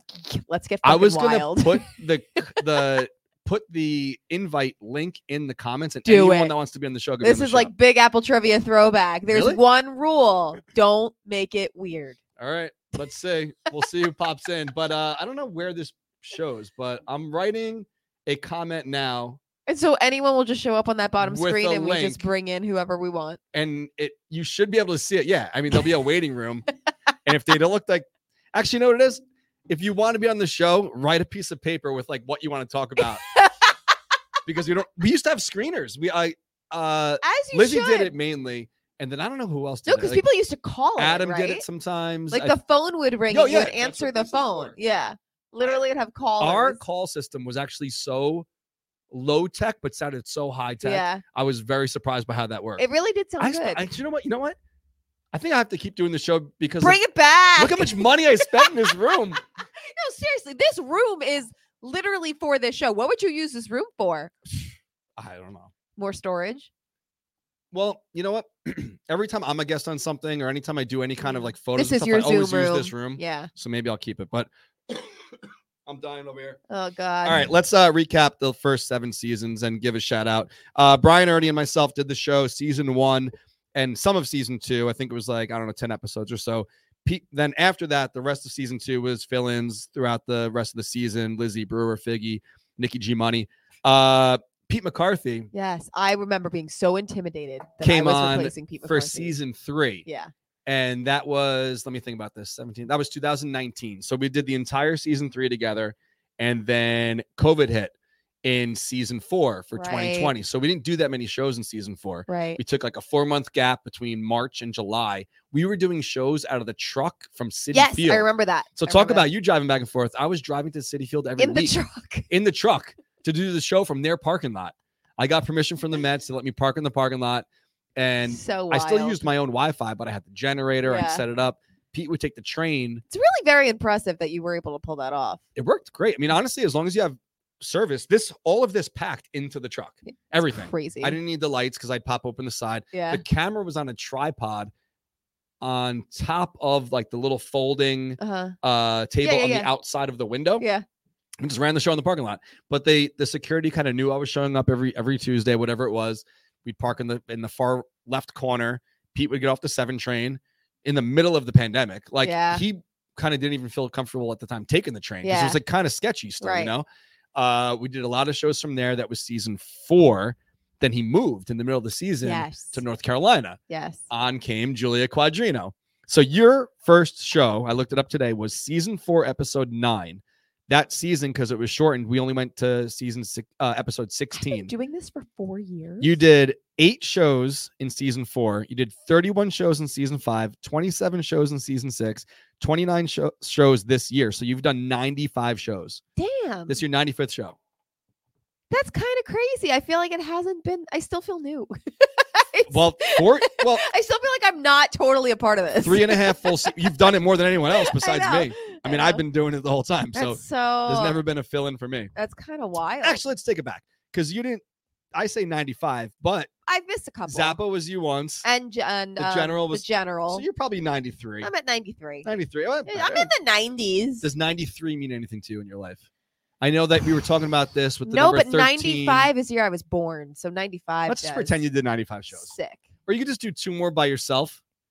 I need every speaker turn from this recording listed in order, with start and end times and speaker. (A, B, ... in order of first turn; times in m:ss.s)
0:00.1-0:01.9 A
0:00.8-0:07.7 B
0:06.0-0:06.5 A
0:07.2-0:12.2 A
0:09.3-0:09.6 B
0:12.4-0:19.4 B
0:19.7-0:23.4 A
0:21.2-0:22.2 B
0:23.5-0:26.7 B
0:27.2-0:33.2 B
0:33.4-0:33.7 A
0:34.4-0:40.2 B
0:37.2-0:38.1 A
0:39.8-0:41.6 A
0:41.0-0:42.5 B
0:42.3-0:46.8 A
0:43.3-0:44.8 B
0:46.4-0:48.5 B
0:49.1-0:52.8 B
0:50.8-0:51.2 A
0:52.8-0:53.8 A
0:53.4-0:54.6 B
0:55.3-0:57.0 B
0:56.8-0:59.1 A
0:57.6-0:59.4 B
0:59.8-1:04.3 A
1:05.2-1:05.7 B
1:06.0-1:06.7 A
1:07.7-1:16.6 B
1:11.2-1:13.5 A
1:16.7-1:17.5 A
1:17.2-1:35.5 B
1:35.5-1:39.3 A
1:37.8-1:40.0 B
1:40.0-1:40.3 A
1:40.6-1:47.9 B
1:48.4-1:58.2 B
1:49.8-1:50.3 A
1:52.3-1:52.6 A
1:57.7-1:59.3 A
1:58.8-2:01.7 B
2:01.4-2:02.3 A
2:02.3-2:07.4 B
2:08.0-2:13.0 B
2:08.3-2:09.3 A
2:10.8-2:11.2 A
2:13.1-2:15.4 A
2:15.6-2:24.7 B
2:20.6-2:21.2 A
2:22.9-2:23.2 A
2:25.6-2:30.6 B
2:28.2-2:28.5 A
2:29.2-2:29.7 A
2:31.4-2:53.6 B
2:42.2-2:42.6 A
2:45.2-2:45.6 A
2:46.4-2:46.7 A
2:52.2-2:52.8 A
2:53.7-2:54.0 A
2:54.1-3:04.7 B
3:04.3-3:06.2 A
3:06.0-3:16.0 B
3:16.2-3:16.8 A
3:16.7-3:17.6 B
3:18.7-3:26.5 A
3:22.7-3:23.8 B
3:25.8-3:32.1 B
3:27.7-3:29.2 A
3:30.1-3:31.2 A
3:32.1-3:33.2 A
3:33.0-3:34.6 B
3:35.1-3:36.5 B
3:36.7-3:37.6 A
3:37.3-3:38.4 B
3:38.4-3:40.4 A
3:39.2-3:41.5 B
3:41.4-3:42.3 A
3:42.2-3:43.3 B
3:42.8-3:44.3 A
3:44.2-3:46.0 B
3:46.6-3:49.3 B
3:48.0-3:51.6 A
3:51.1-3:52.5 B
3:52.3-3:52.8 A
3:53.0-3:54.6 B